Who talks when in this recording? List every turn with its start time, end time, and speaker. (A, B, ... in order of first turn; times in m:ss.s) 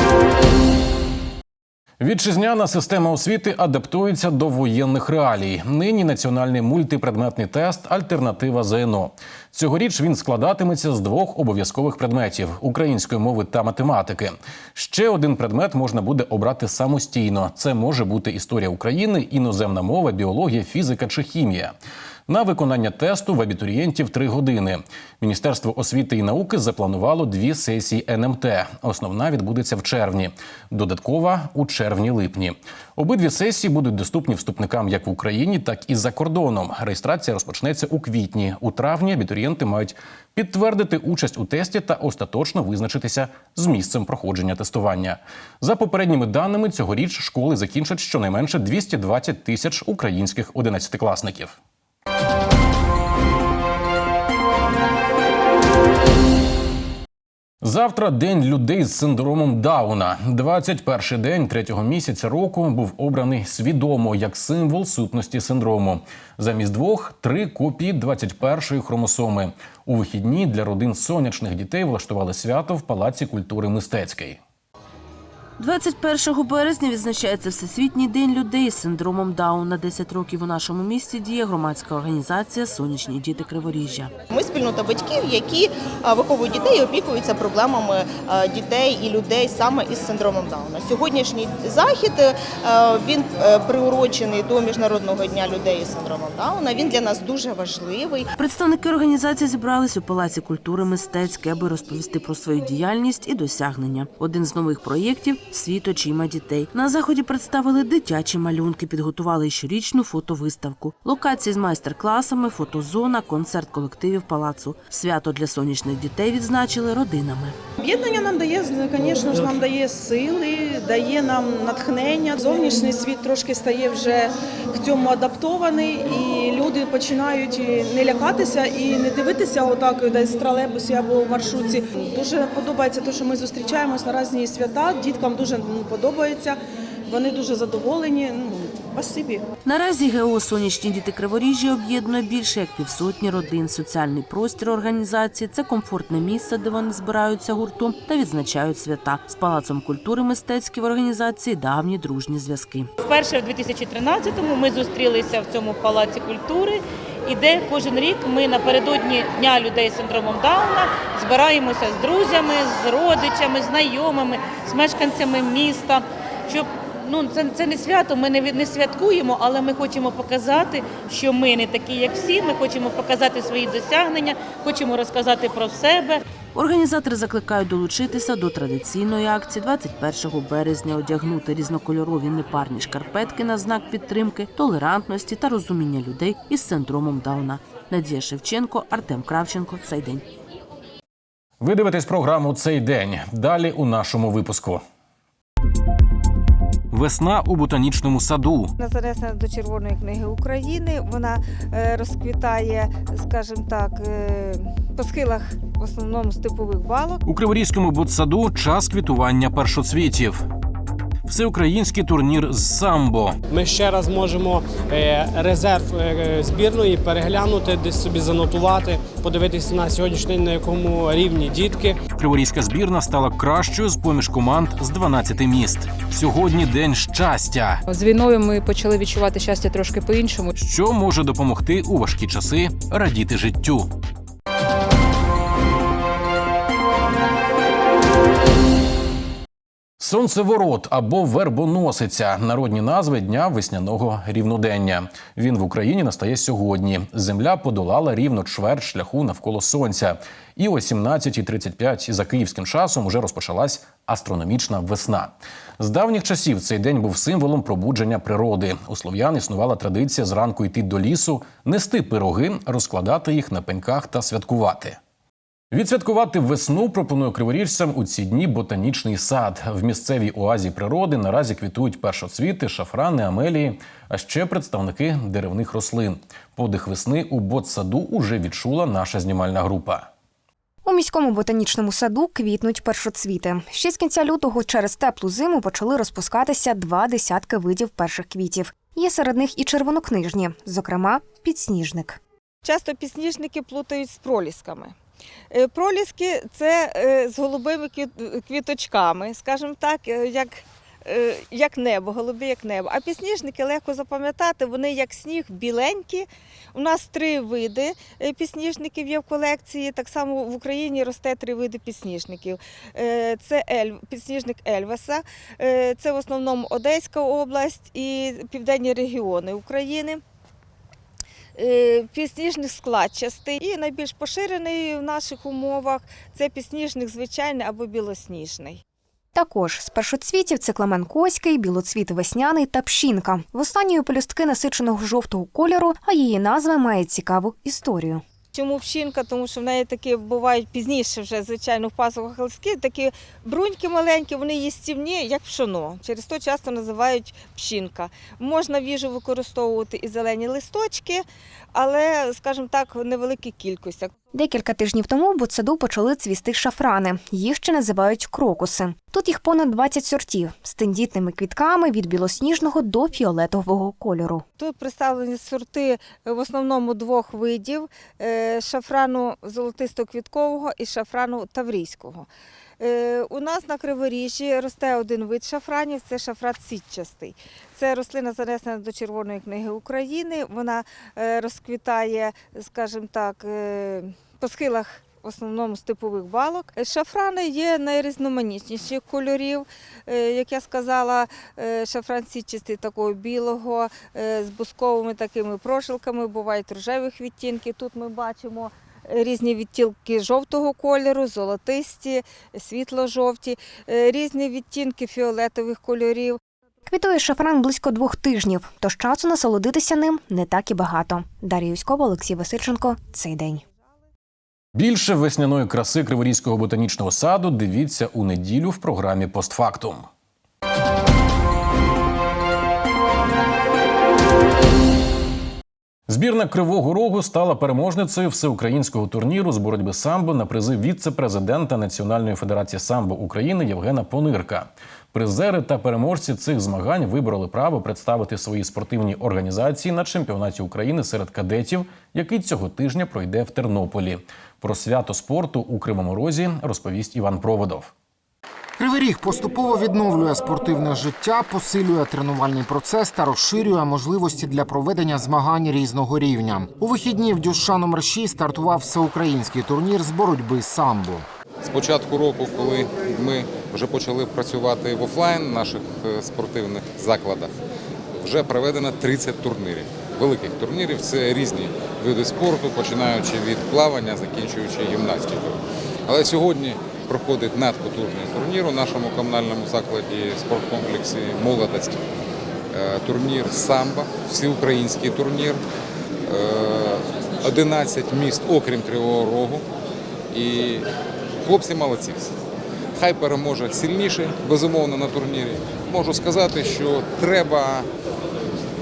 0:02.0-0:21.7 A
0:22.3-0:51.6 A
0:57.6-1:14.4 A
1:15.6-1:24.1 B
1:24.3-1:38.3 C
1:38.4-1:57.5 B
1:57.8-2:19.4 D
2:19.6-2:32.9 B
2:33.0-2:56.2 E
2:56.5-3:10.2 B
3:11.6-3:14.8 A
3:16.9-3:18.7 A
3:18.8-3:27.2 F
3:27.2-3:30.4 A
3:31.3-3:33.4 A
3:33.5-3:42.0 G
3:42.1-3:47.8 A
3:47.9-3:50.5 H
3:50.5-3:53.9 A
4:00.0-4:25.0 A
4:25.7-4:40.1 A
4:40.8-4:52.2 I
4:52.6-4:54.9 F
4:55.5-5:20.2 F
5:21.6-5:28.8 F
5:29.3-5:38.2 I
5:38.5-5:54.2 F
5:54.3-6:04.4 I
6:04.6-6:12.3 F
6:12.8-6:46.4 F
6:46.9-6:53.6 I
6:54.7-7:00.1 A
7:06.1-7:27.9 A
7:28.8-7:41.3 J
7:41.6-7:47.5 K
7:48.1-8:02.0 K
8:02.7-8:05.6 K
8:06.2-8:09.6 K
8:10.3-8:10.8 K
8:11.4-8:12.3 K
8:13.0-8:17.9 K